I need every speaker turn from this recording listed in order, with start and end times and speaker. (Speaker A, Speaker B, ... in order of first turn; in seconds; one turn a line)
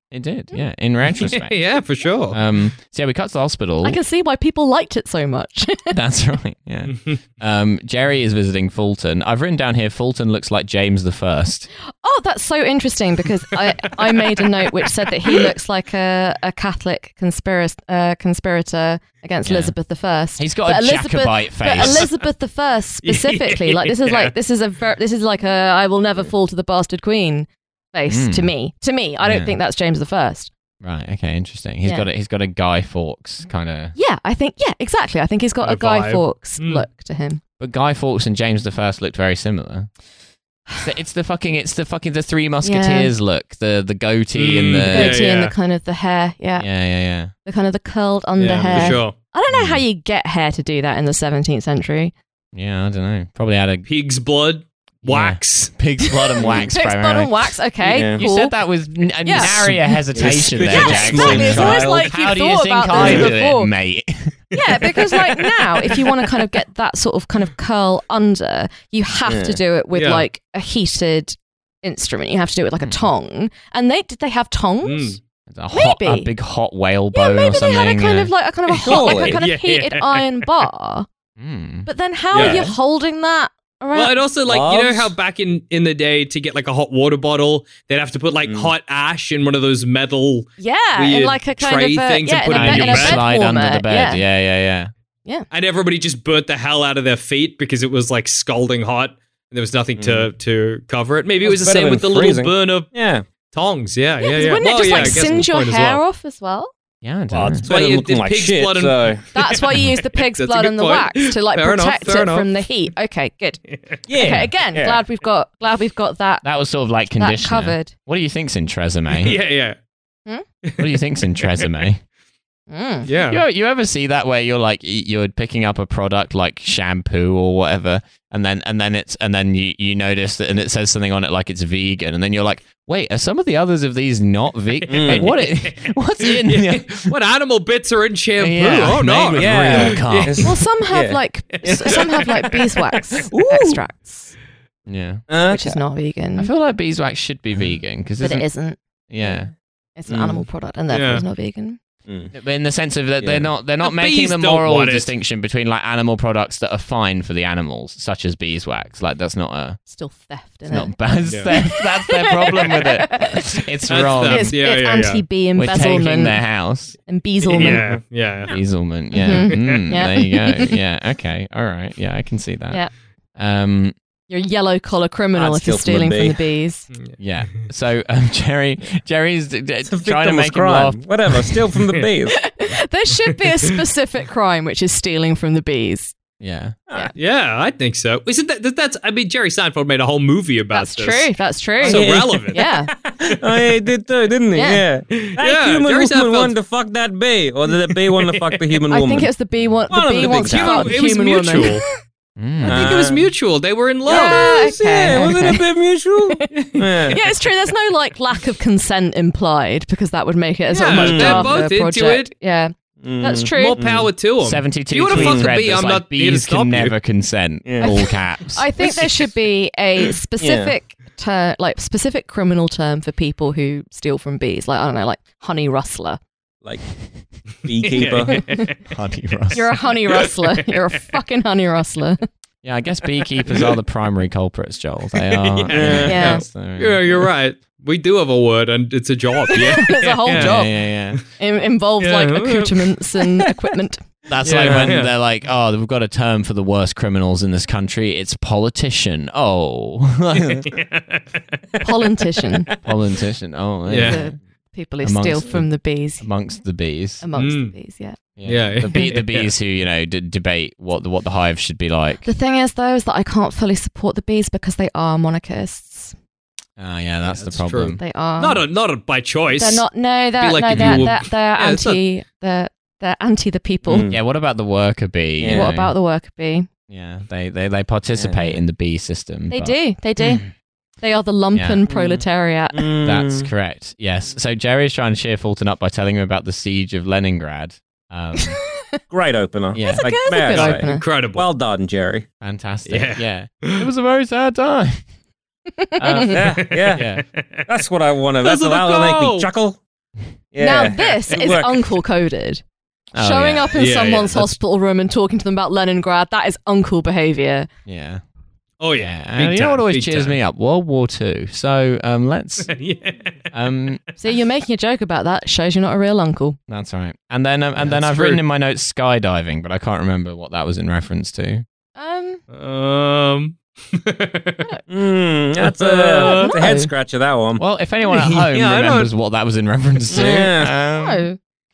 Speaker A: 0.1-4.0
Speaker B: 1.1-2.4
Speaker C: 3.8-6.0
Speaker A: 5.9-11.7
Speaker B: 6.9-7.2
Speaker C: 12.0-30.5
Speaker A: 19.4-19.8
Speaker A: 20.4-22.1
Speaker B: 23.0-24.3
Speaker A: 28.1-28.5
Speaker A: 29.2-29.6
Speaker A: 30.8-34.0
Speaker C: 34.0-37.4
Speaker B: 35.6-36.8
Speaker A: 37.6-39.9
Speaker A: 40.8-45.2
Speaker C: 42.6-43.1
Speaker B: 44.4-45.5
Speaker C: 44.9-46.7
Speaker A: 46.6-47.3
Speaker C: 47.5-52.1
Speaker B: 48.4-49.1
Speaker A: 49.5-49.8
Speaker A: 52.5-53.9
Speaker B: 53.9-55.7
Speaker A: 55.0-57.5
Speaker C: 56.1-58.6
Speaker D: 57.8-58.2
Speaker A: 58.1-64.4
Speaker C: 59.2-63.7
Speaker D: 59.4-62.1
Speaker D: 62.9-63.3
Speaker C: 64.5-75.2
Speaker B: 64.8-66.2
Speaker D: 69.3-69.6
Speaker B: 69.9-70.2
Speaker A: 72.8-73.1
Speaker B: 74.8-75.2
Speaker A: 75.5-78.3
Speaker C: 75.7-76.3
Speaker C: 77.1-81.1
Speaker B: 78.7-80.5
Speaker D: 78.8-79.4
Speaker A: 81.4-81.9
Speaker C: 81.9-84.2
Speaker B: 82.3-82.7
Speaker D: 82.3-82.7
Speaker B: 83.9-93.2
Speaker D: 84.5-85.1
Speaker D: 88.5-88.7
Speaker C: 90.6-94.2
Speaker A: 92.5-94.9
Speaker B: 95.5-103.0
Speaker D: 100.0-100.3
Speaker D: 101.4-103.2
Speaker B: 103.5-106.0
Speaker C: 104.2-106.7
Speaker A: 107.0-107.7
Speaker B: 107.4-112.5
Speaker D: 107.6-109.2
Speaker C: 109.3-116.5
Speaker D: 114.1-115.0
Speaker A: 116.4-119.4
Speaker C: 117.2-117.9
Speaker B: 119.1-119.8
Speaker B: 120.6-121.7
Speaker A: 120.8-122.0
Speaker C: 122.7-123.1
Speaker B: 123.1-123.4
Speaker A: 123.3-137.1
Speaker D: 134.9-135.3
Speaker B: 134.9-140.5
Speaker A: 138.4-140.5
Speaker D: 139.4-142.3
Speaker C: 140.4-144.4
Speaker B: 141.7-142.5
Speaker D: 143.3-143.8
Speaker A: 144.9-145.2
Speaker D: 145.3-145.8
Speaker C: 145.5-146.5
Speaker A: 146.4-148.5
Speaker C: 148.2-148.8
Speaker A: 149.1-149.5
Speaker D: 149.2-149.5
Speaker C: 150.0-151.8
Speaker D: 150.1-150.4
Speaker B: 150.9-151.2
Speaker D: 152.1-152.3
Speaker A: 152.3-159.8
Speaker D: 153.2-153.5
Speaker B: 153.8-155.1
Speaker C: 159.9-160.9
Speaker A: 160.7-164.5
Speaker B: 161.3-161.5
Speaker C: 161.5-163.6
Speaker B: 163.9-165.2
Speaker C: 164.2-166.4
Speaker A: 165.6-167.0
Speaker C: 167.1-167.9
Speaker B: 167.4-168.6
Speaker D: 167.6-168.0
Speaker A: 168.5-173.9
Speaker C: 169.1-170.7
Speaker B: 169.3-169.8
Speaker C: 174.3-176.9
Speaker D: 175.3-176.4
Speaker A: 177.2-181.1
Speaker D: 179.8-182.4
Speaker C: 182.3-186.2
Speaker A: 186.4-186.8
Speaker B: 187.2-192.6
Speaker C: 190.7-192.9
Speaker D: 191.8-199.3
Speaker C: 194.6-194.8
Speaker B: 195.2-196.6
Speaker B: 198.2-198.6
Speaker C: 198.9-201.9
Speaker D: 199.9-201.0
Speaker B: 200.2-201.8
Speaker A: 202.4-202.9
Speaker D: 202.6-203.3
Speaker B: 202.6-204.6
Speaker D: 204.1-207.2
Speaker C: 204.1-205.7
Speaker B: 206.7-207.2
Speaker C: 207.1-213.8
Speaker B: 210.7-212.3
Speaker D: 210.9-211.6
Speaker D: 213.0-214.1
Speaker B: 213.5-217.0
Speaker A: 214.4-218.7
Speaker D: 215.1-215.5
Speaker D: 217.7-218.0
Speaker C: 217.8-226.2
Speaker D: 220.4-220.8
Speaker D: 227.6-228.5
Speaker B: 227.8-228.8
Speaker A: 228.8-229.7
Speaker C: 229.5-232.2
Speaker B: 230.1-230.7
Speaker A: 232.6-237.3
Speaker B: 235.2-240.6
Speaker D: 235.7-236.2
Speaker C: 236.1-236.4
Speaker C: 239.5-240.8
Speaker A: 239.6-241.2
Speaker C: 241.4-244.0
Speaker B: 242.0-243.5
Speaker A: 244.3-250.7
Speaker B: 244.4-245.1
Speaker B: 250.5-251.3
Speaker C: 251.8-252.7
Speaker A: 252.8-254.3
Speaker B: 253.9-254.2
Speaker C: 254.0-256.3
Speaker A: 255.0-255.7
Speaker A: 256.2-257.2
Speaker C: 257.2-258.2
Speaker B: 257.4-257.7
Speaker A: 258.4-262.3
Speaker B: 258.5-259.5
Speaker C: 262.2-266.1
Speaker A: 266.8-268.0
Speaker B: 267.2-272.0
Speaker C: 268.0-268.6
Speaker C: 269.6-274.1
Speaker A: 270.7-271.1
Speaker D: 273.9-274.2
Speaker A: 274.1-275.9
Speaker D: 275.4-275.7
Speaker C: 275.5-276.7
Speaker A: 276.9-280.5
Speaker D: 278.2-278.6
Speaker C: 279.5-280.4
Speaker C: 281.0-282.9
Speaker A: 281.5-281.8
Speaker D: 281.9-283.5
Speaker A: 283.1-288.6
Speaker C: 288.4-289.0
Speaker D: 289.1-292.3
Speaker A: 289.7-290.1
Speaker C: 289.8-291.0
Speaker B: 290.5-291.5
Speaker A: 292.4-295.0
Speaker B: 292.9-293.9
Speaker C: 295.8-296.4
Speaker A: 296.0-296.4
Speaker D: 296.2-297.1
Speaker B: 296.4-297.7
Speaker A: 296.9-297.2
Speaker D: 297.7-299.8
Speaker B: 298.4-299.5
Speaker D: 300.5-301.9
Speaker C: 300.6-302.6
Speaker A: 303.1-303.9
Speaker C: 303.2-307.7
Speaker B: 303.8-304.6
Speaker A: 307.9-308.2
Speaker B: 308.8-310.4
Speaker A: 309.0-312.7
Speaker B: 312.7-313.4
Speaker A: 313.5-314.0
Speaker C: 314.2-316.6
Speaker A: 316.7-321.6
Speaker B: 317.8-318.4
Speaker C: 322.0-322.4
Speaker B: 322.5-324.6
Speaker D: 324.9-327.6
Speaker B: 325.6-326.5
Speaker C: 326.1-326.9
Speaker A: 327.6-331.2
Speaker B: 328.1-329.1
Speaker D: 330.1-330.7
Speaker C: 330.9-331.4